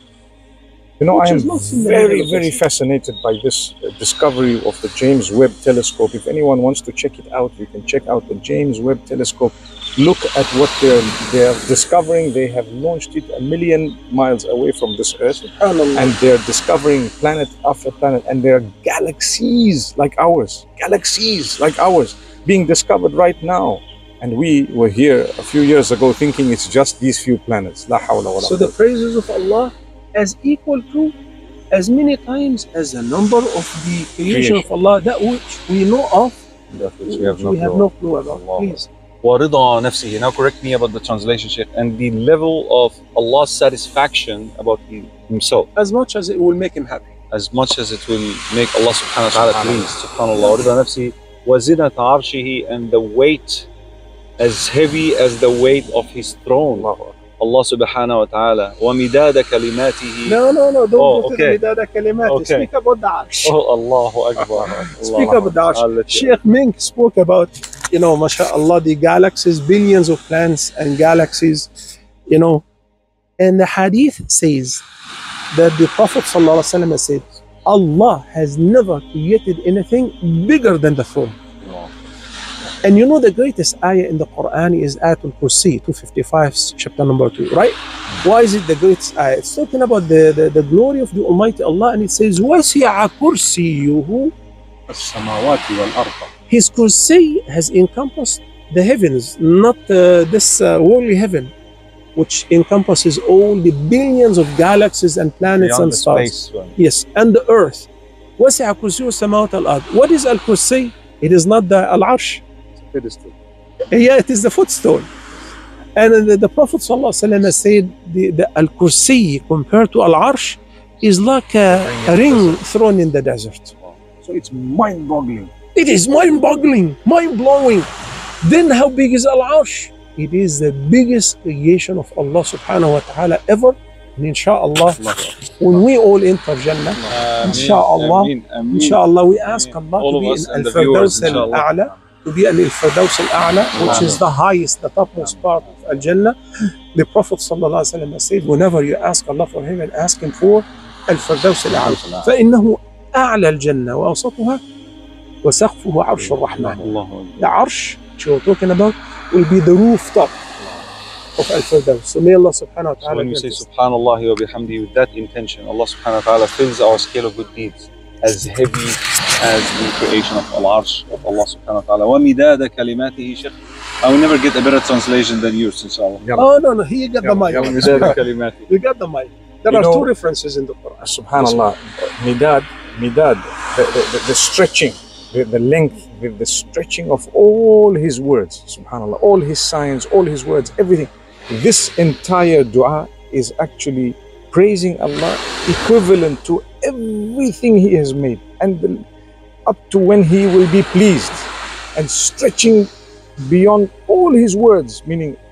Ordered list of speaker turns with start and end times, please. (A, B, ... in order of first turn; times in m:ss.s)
0:01.0-0:28.7 A
0:01.1-0:02.6 B
0:15.6-0:16.2 B
0:28.4-0:31.2 B
0:31.7-0:36.4 B
0:34.3-0:34.7 A
0:36.7-0:45.7 C
0:37.0-0:38.9 B
0:45.8-0:47.1 B
0:47.3-0:53.7 C
0:49.3-0:49.9 A
0:54.4-1:00.4 C
0:56.7-0:57.2 A
1:00.2-1:03.6 B
1:01.0-1:01.6 C
1:02.2-1:02.7 C
1:03.4-1:06.4 C
1:04.4-1:04.8 A
1:05.0-1:11.7 B
1:12.3-1:12.6 B
1:13.4-1:14.8 B
1:15.5-1:21.4 B
1:22.8-1:34.3 B
1:34.9-1:36.3 A
1:36.5-1:41.5 B
1:42.2-1:52.4 B
1:45.5-1:46.8 C
1:52.8-1:53.4 A
1:53.9-1:55.1 B
1:56.0-2:03.8 B
2:01.7-2:02.6 A
2:04.2-2:05.5 A
2:05.8-2:07.9 B
2:08.4-2:26.4 B
2:15.0-2:15.3 C
2:16.9-2:17.2 A
2:17.0-2:21.8 C
2:23.8-2:24.2 C
2:23.8-2:24.1 A
2:26.9-2:34.6 B
2:31.6-2:32.3 C
2:35.4-2:40.4 B
2:36.2-2:37.6 C
2:41.4-2:43.6 B
2:43.0-2:56.2 C
2:56.2-2:56.6 A
2:56.4-3:01.6 B
2:57.2-2:58.2 A
2:57.5-2:58.7 C
2:59.7-3:00.1 A
3:01.0-3:19.1 A
3:19.7-3:25.4 A